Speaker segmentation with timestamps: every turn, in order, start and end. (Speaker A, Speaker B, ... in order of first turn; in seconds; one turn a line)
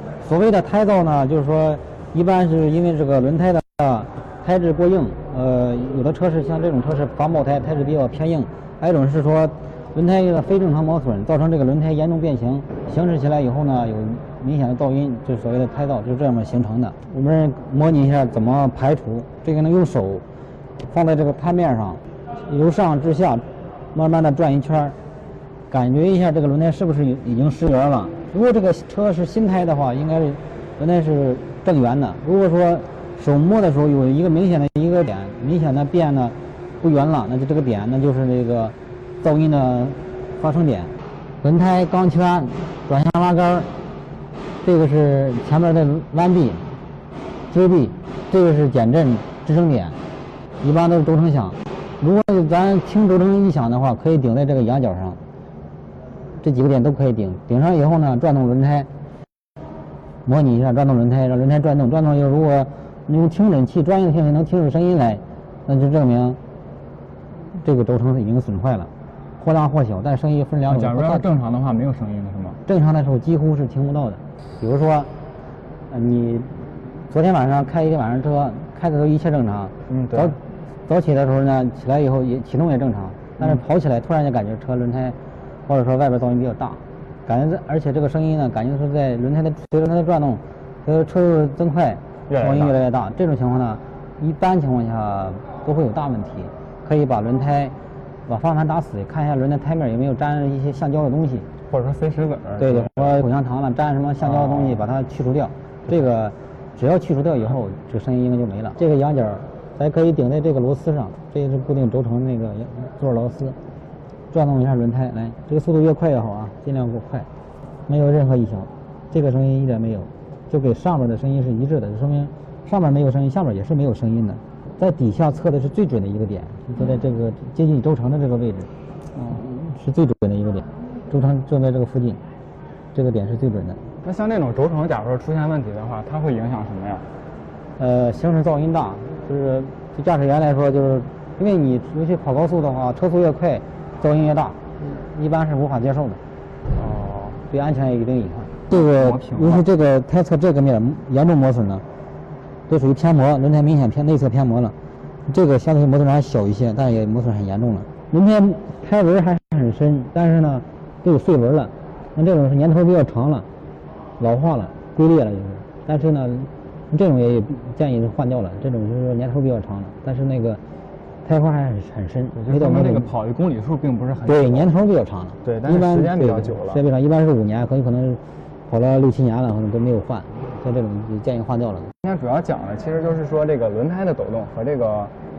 Speaker A: 0.2-20.2
Speaker A: 20.9-24.9
Speaker A: 25.7-43.7
Speaker A: 44.6-46.8
Speaker A: 47.5-50.0
Speaker A: 50.6-55.2
Speaker A: 56.4-58.9
Speaker A: 60.2-66.4
Speaker A: 67.5-71.2
Speaker B: 70.7-72.6
Speaker A: 72.7-75.1
Speaker A: 75.9-97.7
Speaker B: 79.9-80.3
Speaker B: 92.3-92.8
Speaker A: 98.3-101.5
Speaker B: 101.7-103.2
Speaker A: 102.6-113.6
Speaker B: 104.2-104.9
Speaker A: 114.3-117.3
Speaker A: 117.9-128.7
Speaker B: 129.1-129.4
Speaker A: 129.3-132.2
Speaker A: 132.9-133.8
Speaker B: 134.0-137.1
Speaker A: 137.8-146.2
Speaker B: 146.7-147.4
Speaker A: 147.5-151.8
Speaker B: 148.7-149.7
Speaker A: 152.7-154.7
Speaker A: 155.2-163.5
Speaker A: 164.2-170.6
Speaker A: 171.2-173.1
Speaker B: 172.3-174.7
Speaker A: 174.2-181.9
Speaker B: 175.4-176.8
Speaker B: 182.0-185.1